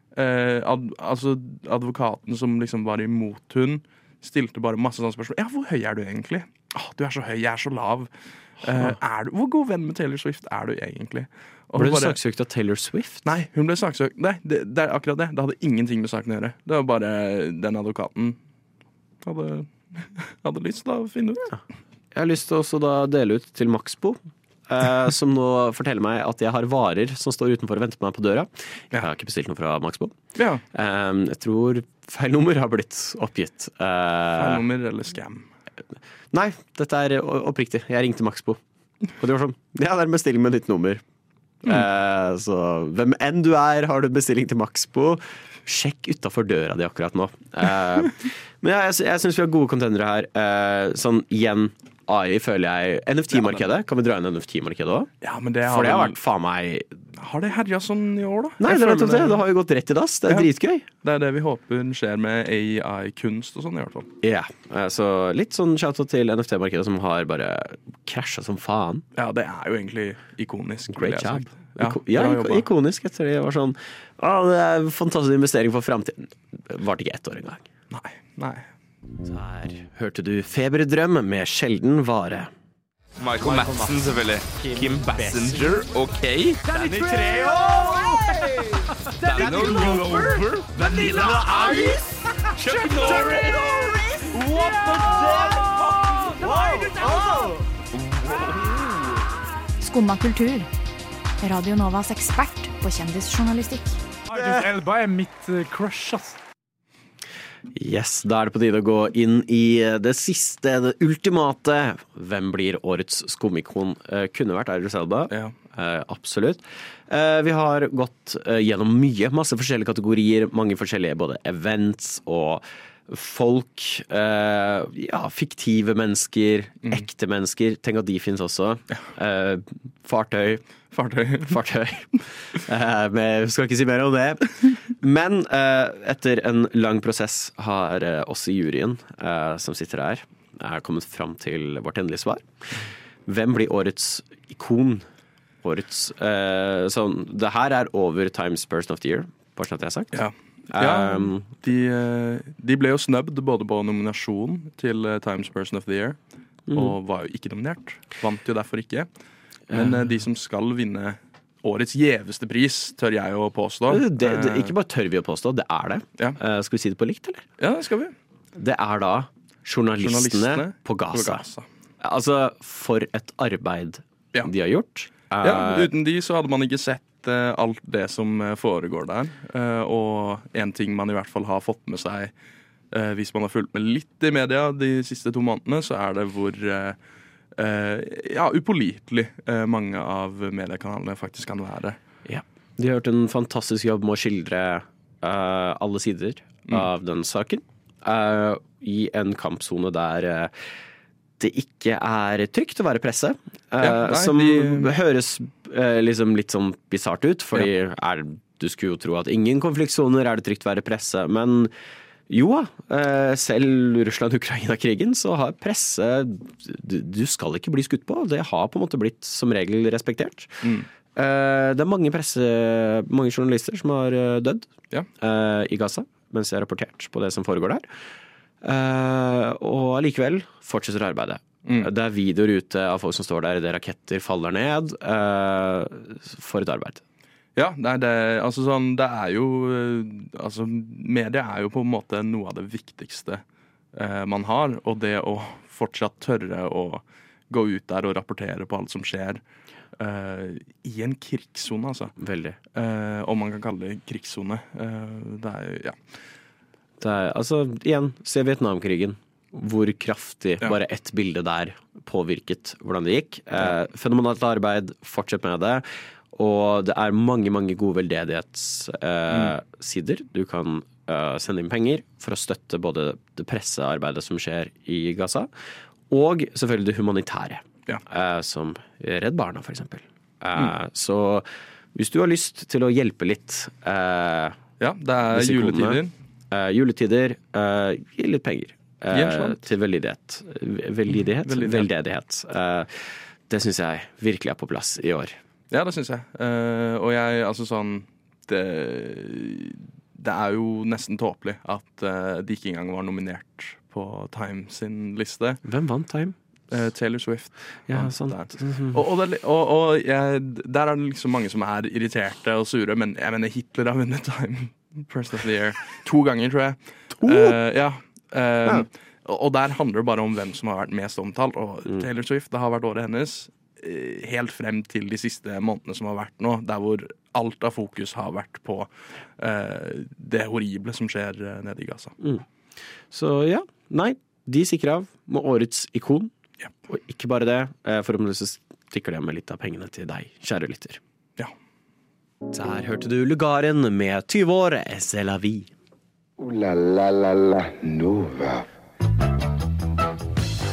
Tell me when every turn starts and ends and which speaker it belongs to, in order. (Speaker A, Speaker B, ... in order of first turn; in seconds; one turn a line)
Speaker A: 0.2-8.1
Speaker A: 8.6-12.2
Speaker B: 11.8-13.2
Speaker A: 13.2-18.4
Speaker A: 19.2-21.5
Speaker B: 22.1-30.2
Speaker A: 30.4-30.6
Speaker B: 30.7-34.6
Speaker A: 34.4-35.5
Speaker B: 36.3-38.6
Speaker B: 39.1-41.0
Speaker B: 41.6-55.1
Speaker A: 53.3-53.6
Speaker A: 55.2-56.2
Speaker B: 55.6-56.9
Speaker A: 57.2-59.4
Speaker B: 58.6-60.9
Speaker A: 61.0-64.1
Speaker B: 64.2-69.0
Speaker A: 69.2-72.7
Speaker B: 70.9-77.7
Speaker A: 77.9-78.7
Speaker B: 79.2-82.5
Speaker C: 83.2-88.1
Speaker D: 83.4-84.2
Speaker D: 84.7-85.9
Speaker B: 85.2-85.7
Speaker D: 86.7-92.0
Speaker B: 87.0-88.2
Speaker C: 89.2-92.0
Speaker B: 89.3-92.0
Speaker D: 92.6-97.6
Speaker C: 92.6-93.8
Speaker B: 93.0-93.3
Speaker C: 94.5-95.5
Speaker C: 96.6-97.1
Speaker C: 98.2-98.8
Speaker E: 99.8-100.7
Speaker E: 101.4-104.0
Speaker D: 104.3-106.4
Speaker B: 104.3-104.7
Speaker B: 107.8-130.6
Speaker A: 130.9-131.6
Speaker B: 131.5-142.4
Speaker B: 143.3-145.1
Speaker B: 145.6-150.2
Speaker A: 150.1-156.2
Speaker B: 150.7-151.5
Speaker B: 156.7-156.9
Speaker A: 156.7-159.1
Speaker B: 159.7-160.1
Speaker A: 159.7-164.7
Speaker B: 163.9-167.4
Speaker A: 167.6-168.1
Speaker B: 168.6-171.4
Speaker A: 170.0-171.7
Speaker B: 172.0-175.9
Speaker A: 175.4-182.3
Speaker A: 182.9-187.0
Speaker A: 187.6-192.0
Speaker B: 192.3-200.5
Speaker B: 201.4-211.7
Speaker A: 203.8-204.9
Speaker B: 212.3-220.6
Speaker B: 221.2-224.7
Speaker B: 225.2-227.9
Speaker B: 228.6-237.0
Speaker A: 231.7-231.9
Speaker A: 237.6-243.4
Speaker A: 243.9-249.4
Speaker A: 250.0-252.2
Speaker B: 252.2-252.6
Speaker A: 252.7-256.0
Speaker B: 257.0-275.5
Speaker B: 276.1-284.6
Speaker A: 284.8-286.1
Speaker B: 285.3-286.0
Speaker B: 286.5-295.4
Speaker A: 289.1-289.7
Speaker A: 291.4-291.9
Speaker A: 295.7-305.6
Speaker B: 305.6-306.4
Speaker A: 306.7-332.1
Speaker B: 307.9-309.1
Speaker B: 317.2-317.6
Speaker B: 333.1-336.3
Speaker B: 336.9-341.0
Speaker B: 342.5-345.7
Speaker F: 346.4-348.7